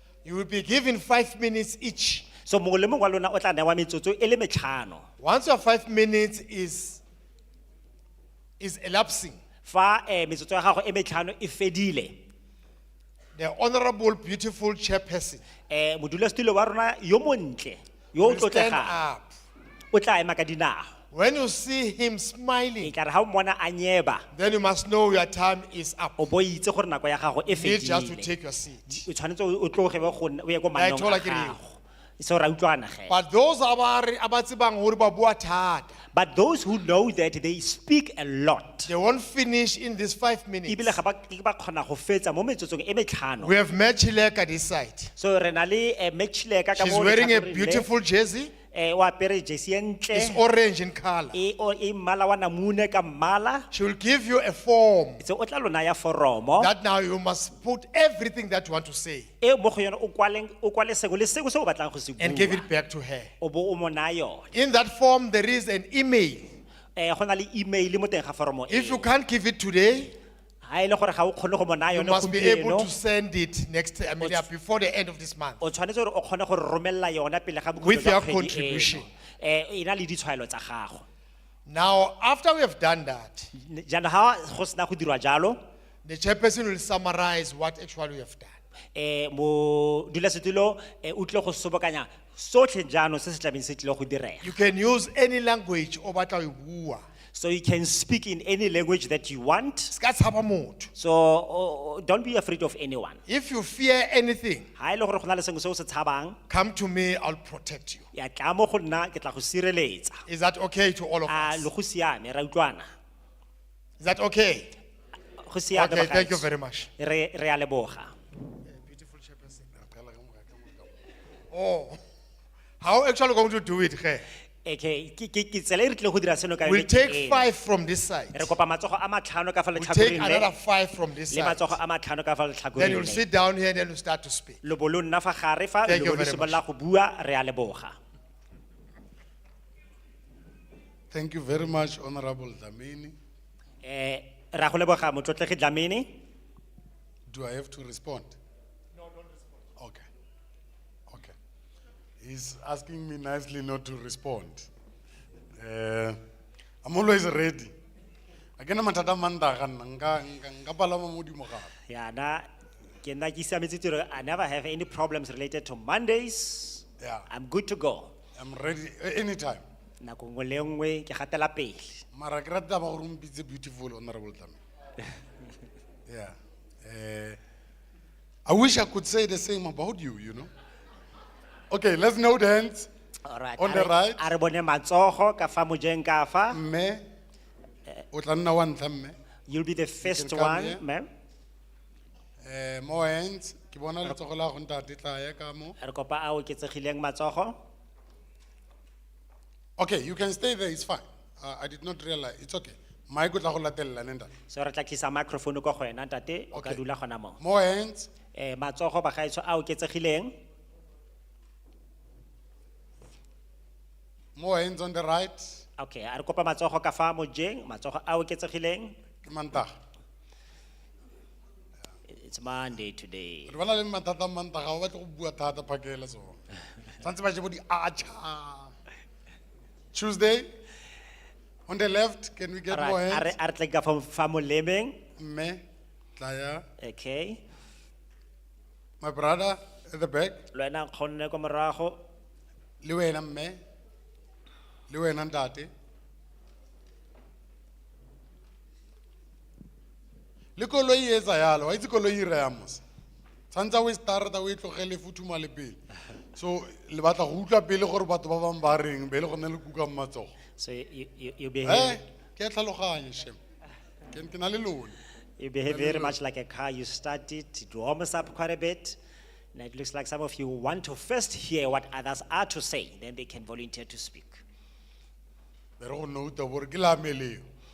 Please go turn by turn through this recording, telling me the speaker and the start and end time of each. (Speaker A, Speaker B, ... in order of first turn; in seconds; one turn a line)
Speaker A: 0.2-2.3
Speaker B: 2.4-5.0
Speaker A: 5.2-7.0
Speaker A: 8.6-9.4
Speaker B: 9.6-12.2
Speaker A: 13.3-15.4
Speaker B: 15.7-19.0
Speaker A: 18.2-19.3
Speaker B: 19.9-20.9
Speaker A: 21.1-22.9
Speaker B: 22.8-24.2
Speaker A: 24.3-26.2
Speaker B: 26.2-28.3
Speaker A: 27.5-29.0
Speaker B: 28.9-33.1
Speaker A: 30.7-31.6
Speaker A: 33.1-35.9
Speaker B: 36.1-38.9
Speaker A: 38.9-41.0
Speaker B: 40.7-43.5
Speaker A: 43.4-45.1
Speaker B: 45.2-47.9
Speaker A: 46.8-48.5
Speaker B: 48.7-50.4
Speaker A: 50.1-51.4
Speaker B: 51.3-53.7
Speaker A: 53.7-55.2
Speaker B: 55.2-56.7
Speaker A: 56.6-59.3
Speaker B: 59.4-62.6
Speaker A: 62.2-63.3
Speaker B: 63.4-64.5
Speaker A: 64.5-66.5
Speaker B: 67.0-69.1
Speaker A: 68.7-70.1
Speaker B: 70.6-72.9
Speaker A: 71.9-75.6
Speaker B: 74.2-74.5
Speaker B: 75.6-81.0
Speaker A: 77.8-79.1
Speaker A: 81.7-83.5
Speaker B: 83.5-85.6
Speaker A: 86.0-88.5
Speaker B: 88.9-94.5
Speaker A: 94.4-97.0
Speaker B: 97.3-99.9
Speaker A: 99.9-100.9
Speaker B: 101.0-103.2
Speaker A: 103.3-104.7
Speaker B: 104.8-106.4
Speaker A: 106.5-108.0
Speaker B: 108.1-110.2
Speaker A: 110.3-111.7
Speaker B: 111.3-112.9
Speaker A: 114.0-114.7
Speaker B: 115.4-116.5
Speaker A: 115.7-116.9
Speaker B: 117.0-118.1
Speaker A: 118.7-119.7
Speaker C: 119.8-120.9
Speaker A: 121.5-122.0
Speaker A: 122.8-124.2
Speaker B: 124.6-127.5
Speaker A: 126.6-128.5
Speaker B: 128.3-130.5
Speaker A: 129.8-131.8
Speaker B: 131.3-133.2
Speaker A: 132.8-134.6
Speaker B: 134.6-138.0
Speaker A: 135.9-136.6
Speaker C: 141.1-143.2
Speaker B: 143.8-146.1
Speaker C: 147.3-148.3
Speaker C: 149.8-150.0
Speaker C: 151.1-151.3
Speaker C: 152.2-154.7
Speaker C: 155.6-156.2
Speaker C: 156.8-157.7
Speaker C: 158.6-161.7
Speaker B: 161.8-162.5
Speaker B: 163.0-168.1
Speaker C: 167.0-167.2
Speaker C: 168.4-169.6
Speaker B: 170.0-171.9
Speaker C: 172.1-174.6
Speaker C: 176.1-177.4
Speaker C: 178.5-180.5
Speaker C: 181.7-182.9
Speaker B: 183.2-186.6
Speaker C: 183.6-184.3
Speaker C: 186.5-187.0
Speaker C: 188.1-189.2
Speaker B: 189.5-191.1
Speaker C: 190.0-190.8
Speaker C: 192.4-195.8
Speaker B: 195.8-197.6
Speaker C: 199.8-204.3
Speaker B: 204.5-207.4
Speaker C: 206.5-206.8
Speaker C: 207.4-208.1
Speaker B: 208.3-210.3
Speaker C: 214.4-215.6
Speaker B: 215.8-218.9
Speaker C: 219.2-219.7
Speaker B: 222.1-223.6
Speaker C: 223.5-226.4
Speaker C: 227.0-228.7
Speaker C: 229.9-230.5
Speaker C: 231.7-233.3
Speaker B: 232.7-235.0
Speaker C: 235.2-235.6
Speaker C: 236.2-236.6
Speaker B: 236.8-237.4
Speaker C: 239.0-240.4
Speaker B: 240.5-242.0
Speaker C: 242.8-243.6
Speaker C: 244.9-245.7
Speaker C: 250.6-252.8
Speaker C: 253.5-255.8
Speaker C: 256.4-260.3
Speaker B: 260.6-262.0
Speaker C: 261.6-263.4
Speaker C: 264.1-265.0
Speaker B: 265.4-269.0
Speaker C: 265.7-266.1
Speaker B: 269.5-274.4
Speaker C: 275.8-277.4